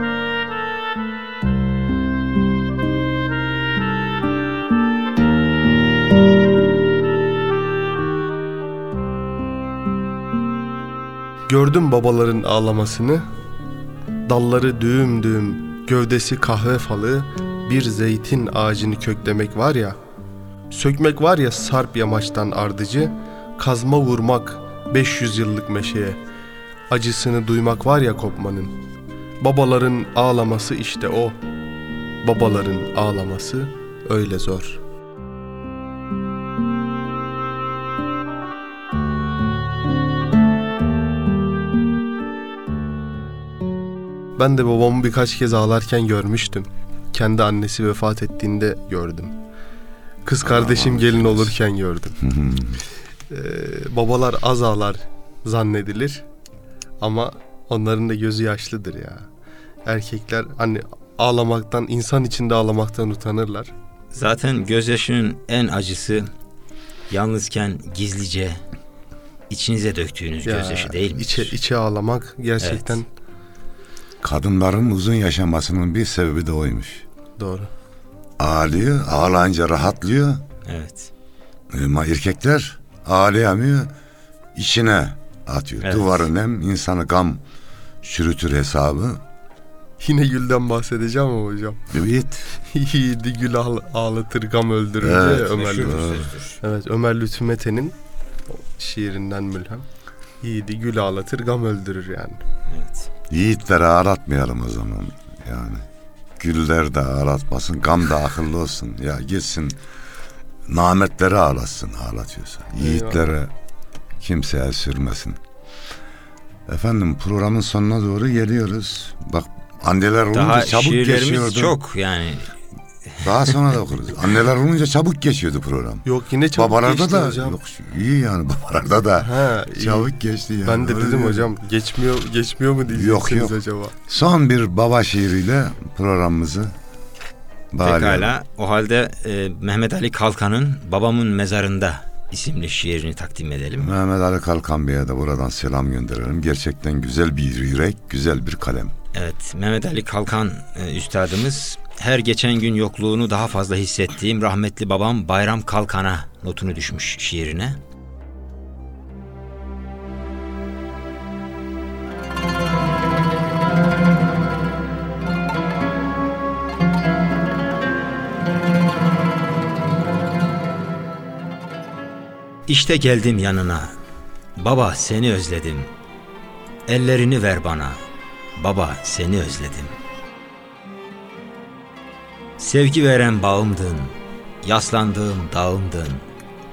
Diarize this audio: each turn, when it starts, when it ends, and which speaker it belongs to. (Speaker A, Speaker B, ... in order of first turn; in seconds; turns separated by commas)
Speaker A: 11.5-13.2, Speaker A: 14.3-20.0, Speaker A: 20.7-26.2, Speaker A: 26.9-28.8, Speaker A: 29.4-31.4, Speaker A: 32.2-34.8, Speaker A: 44.4-49.4, Speaker A: 50.2-52.2, Speaker B: 50.4-51.5, Speaker B: 52.2-52.8, Speaker A: 53.3-56.2, Speaker A: 57.0-59.3, Speaker A: 59.9-63.7, Speaker C: 64.1-66.3, Speaker C: 67.1-68.6, Speaker C: 69.5-71.5, Speaker A: 70.5-73.1, Speaker C: 72.6-73.0, Speaker B: 74.2-77.0, Speaker A: 77.4-77.7, Speaker B: 78.4-80.5, Speaker C: 80.7-81.1, Speaker B: 81.7-83.9, Speaker B: 84.5-87.4, Speaker C: 85.8-86.2, Speaker B: 88.0-89.2, Speaker A: 90.0-91.9, Speaker B: 91.9-92.5, Speaker A: 92.6-96.0, Speaker B: 95.0-96.2, Speaker C: 95.5-96.6, Speaker A: 96.6-98.0, Speaker A: 98.5-99.9, Speaker A: 100.4-102.4, Speaker C: 102.7-103.1, Speaker B: 103.3-105.8, Speaker B: 106.4-109.8, Speaker B: 110.7-113.5, Speaker A: 112.8-113.3, Speaker B: 114.2-115.4, Speaker B: 116.7-121.8, Speaker C: 120.3-122.5, Speaker C: 123.1-123.5, Speaker B: 123.2-131.5, Speaker A: 126.0-127.6, Speaker A: 129.2-130.1, Speaker A: 130.7-133.9, Speaker B: 132.9-136.7, Speaker B: 137.7-138.3, Speaker C: 137.8-143.9, Speaker B: 143.8-148.9, Speaker C: 149.1-157.8, Speaker C: 172.7-173.9, Speaker C: 174.6-175.9, Speaker C: 176.9-178.0, Speaker C: 178.6-180.0, Speaker C: 182.6-186.2